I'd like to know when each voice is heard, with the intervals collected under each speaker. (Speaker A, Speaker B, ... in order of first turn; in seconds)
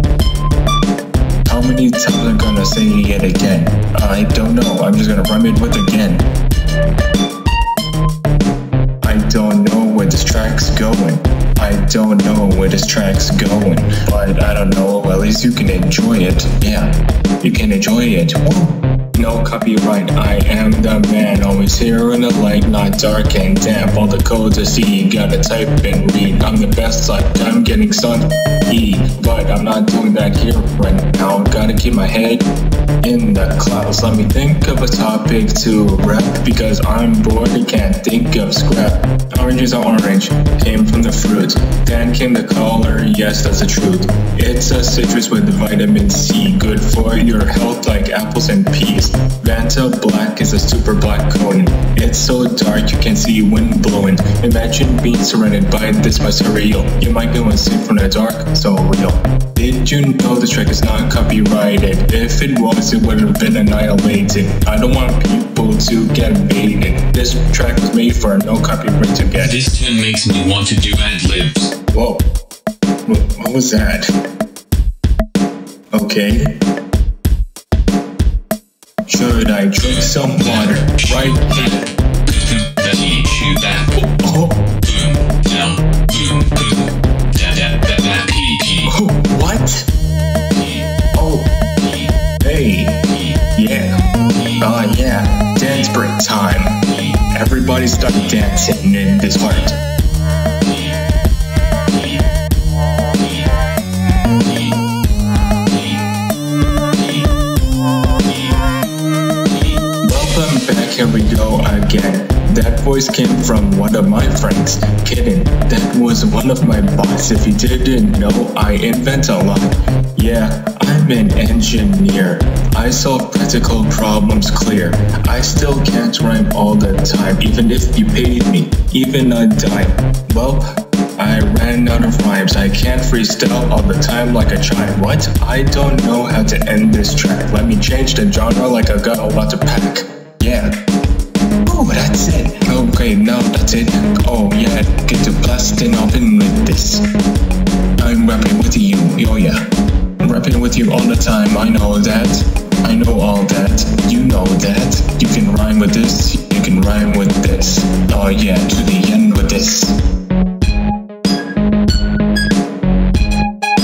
Speaker A: 1.5-6.3, 9.0-32.5, 33.0-69.6, 71.9-72.2, 73.1-74.1, 75.9-76.6, 79.1-81.8, 84.2-84.6, 88.9-89.9, 91.2-91.5, 92.4-93.0, 93.5-93.9, 94.6-96.8, 97.3-99.8, 110.0-130.7, 131.2-140.8, 141.7-147.1, 148.0-149.7, 150.2-160.0
Speaker B: 69.4-71.7, 81.2-81.8, 82.3-83.9, 84.8-88.9